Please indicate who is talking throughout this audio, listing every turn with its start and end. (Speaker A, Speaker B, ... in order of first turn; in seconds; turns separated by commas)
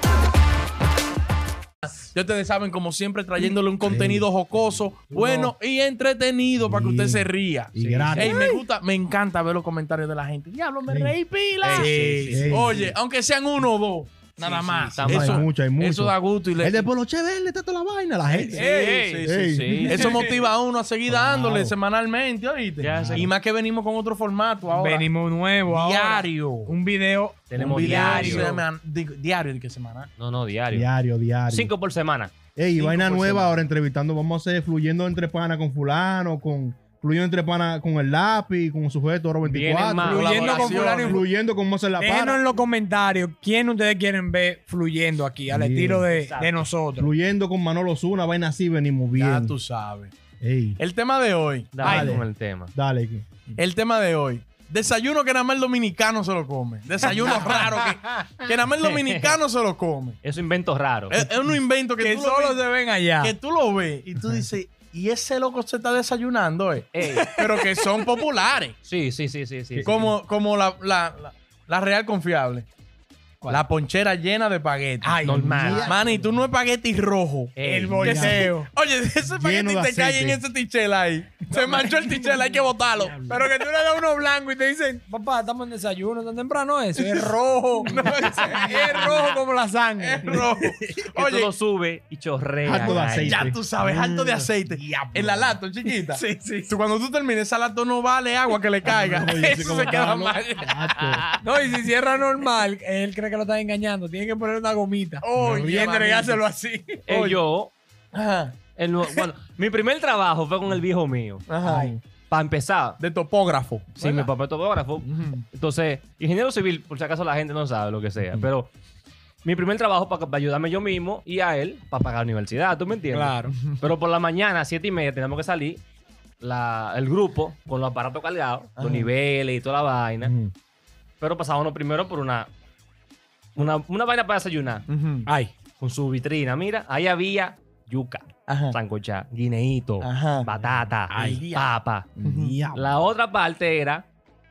Speaker A: 2.0-16.9, Speaker B: 3.4-4.6, Speaker C: 5.1-5.5, Speaker B: 6.6-8.5, Speaker D: 7.8-8.4, Speaker B: 10.9-11.1, Speaker D: 11.6-12.4, Speaker C: 11.7-12.5, Speaker B: 12.2-12.9, Speaker D: 14.4-15.4, Speaker B: 15.0-18.7, Speaker A: 18.3-25.1, Speaker D: 18.5-20.2, Speaker B: 19.2-20.2, Speaker C: 19.8-20.1, Speaker B: 21.1-21.7, Speaker D: 22.8-23.3, Speaker B: 22.9-23.3, Speaker C: 24.7-28.6, Speaker A: 25.6-26.7, Speaker D: 27.5-28.6, Speaker A: 27.5-30.1, Speaker D: 30.2-30.9, Speaker B: 30.7-31.7, Speaker D: 31.5-32.3, Speaker B: 32.5-40.2, Speaker A: 32.8-33.6, Speaker D: 39.4-40.8, Speaker C: 40.0-41.2, Speaker A: 40.1-41.2, Speaker B: 40.8-42.4, Speaker C: 42.0-47.1, Speaker B: 45.5-46.1, Speaker D: 46.1-46.6, Speaker B: 47.0-49.5, Speaker A: 49.1-50.1, Speaker B: 50.4-50.8, Speaker A: 50.8-51.7, Speaker D: 51.7-52.7, Speaker C: 51.8-52.2, Speaker B: 51.8-53.6, Speaker A: 53.6-60.2, Speaker D: 57.0-57.4, Speaker C: 57.2-57.7, Speaker D: 58.8-59.4, Speaker D: 60.2-61.2, Speaker A: 61.1-68.8, Speaker C: 62.0-63.3, Speaker D: 66.9-67.3, Speaker C: 67.0-67.8, Speaker D: 68.8-70.0, Speaker B: 69.7-70.1, Speaker A: 69.8-72.7, Speaker A: 73.5-75.2, Speaker C: 75.0-76.1, Speaker D: 75.2-76.0, Speaker B: 75.3-76.2, Speaker A: 75.8-77.5, Speaker D: 77.5-78.3, Speaker C: 77.6-78.7, Speaker B: 78.0-78.5, Speaker A: 78.0-83.3, Speaker B: 79.3-80.4, Speaker C: 81.6-82.5, Speaker C: 83.2-90.4, Speaker A: 87.0-89.4, Speaker A: 90.0-91.5, Speaker D: 91.1-93.5, Speaker B: 92.6-95.6, Speaker A: 92.9-100.8, Speaker C: 96.1-96.7, Speaker B: 98.8-101.2, Speaker D: 101.0-101.4, Speaker C: 101.4-107.0, Speaker A: 105.2-106.5, Speaker B: 105.4-105.7, Speaker D: 107.0-107.7, Speaker A: 107.1-107.4, Speaker A: 108.1-109.3, Speaker D: 108.8-111.5, Speaker A: 111.5-111.9, Speaker B: 111.6-112.0, Speaker D: 112.3-113.0, Speaker A: 113.0-114.3, Speaker D: 114.0-118.7, Speaker A: 115.0-115.4, Speaker D: 119.4-125.8, Speaker C: 123.1-123.5, Speaker D: 126.4-130.3, Speaker A: 128.8-129.1, Speaker B: 130.2-130.5, Speaker D: 131.2-132.5, Speaker D: 133.6-134.8, Speaker A: 134.9-135.3, Speaker D: 135.8-142.1, Speaker A: 138.5-138.8, Speaker A: 140.0-140.5, Speaker A: 141.1-141.7, Speaker B: 141.1-141.4, Speaker B: 142.2-142.9, Speaker A: 142.2-142.6, Speaker D: 142.7-144.0